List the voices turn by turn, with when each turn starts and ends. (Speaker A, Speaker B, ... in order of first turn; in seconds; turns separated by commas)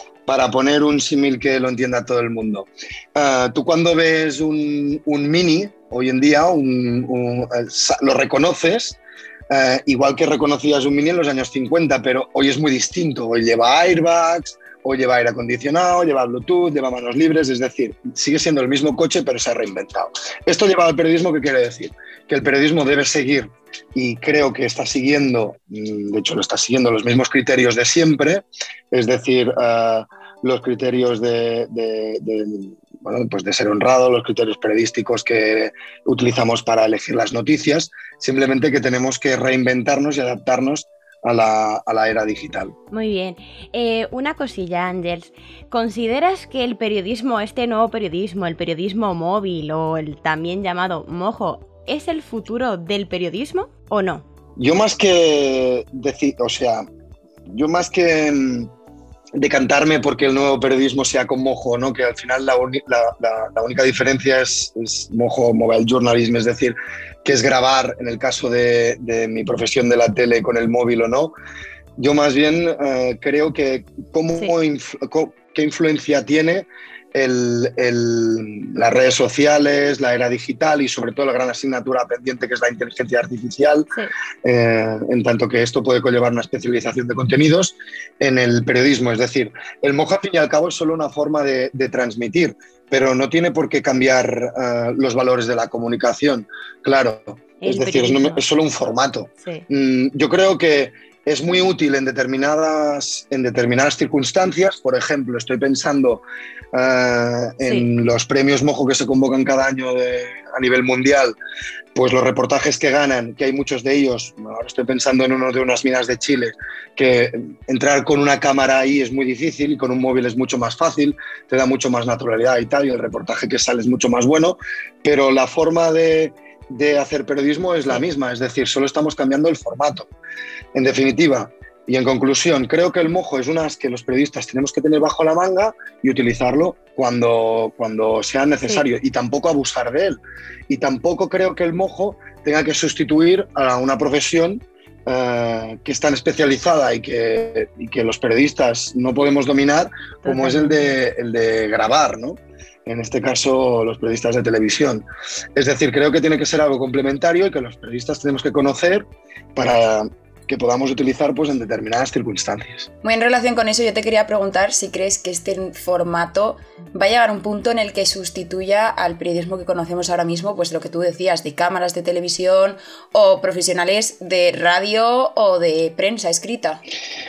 Speaker A: 0.2-42.8, Speaker B: 42.9-54.2, Speaker A: 54.6-56.9, Speaker A: 57.5-58.7, Speaker A: 59.4-71.3, Speaker A: 72.0-83.9, Speaker A: 84.4-111.4, Speaker B: 97.6-98.4, Speaker B: 107.6-107.9, Speaker A: 112.0-130.1, Speaker A: 130.8-162.9, Speaker B: 150.2-150.9, Speaker C: 163.0-176.8